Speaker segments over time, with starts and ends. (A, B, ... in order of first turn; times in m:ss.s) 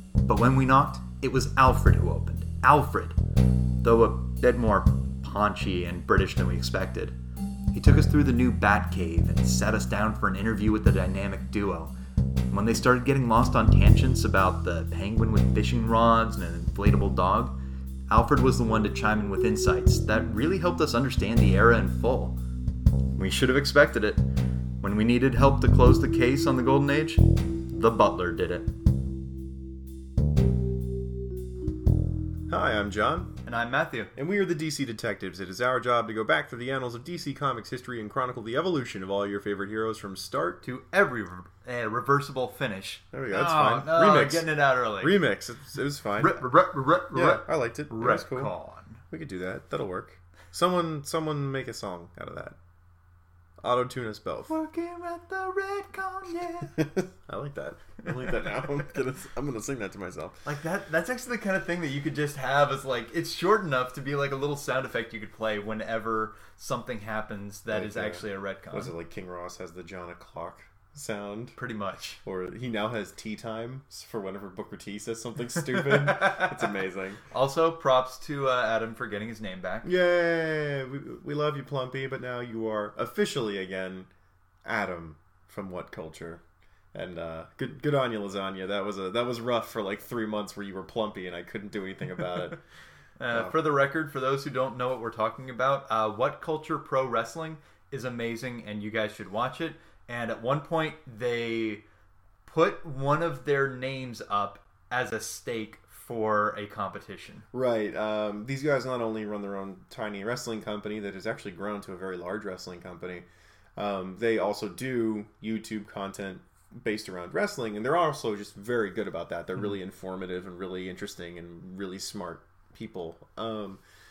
0:00.2-0:03.2 A
0:03.8-0:07.2 A
0:07.7-0:12.0 A
0:12.5-0:17.6 A
0:18.1-0:22.4 A
0:23.2-0:24.2 A
0:24.8-0:28.8 A
0:32.5-0:33.4 B
0:33.4-0:34.1 A
0:34.2-0:40.6 B
0:40.6-0:45.2 A
0:43.1-0:46.4 B
0:46.2-0:49.0 A
0:47.1-0:48.5 B
0:49.1-0:52.6 B
0:53.6-0:54.6 B
0:54.5-0:56.9 A
0:56.8-1:00.4 B
0:58.0-0:58.4 A
1:00.4-1:08.9 A
1:07.7-1:11.6 B
1:11.6-1:12.2 A
1:12.2-1:17.2 B
1:15.6-1:19.9 A
1:19.8-1:24.1 B
1:24.6-1:26.4 B
1:26.9-1:32.6 B
1:33.2-1:41.8 A
1:33.3-1:33.6 B
1:42.5-1:47.5 A
1:47.5-2:03.8 B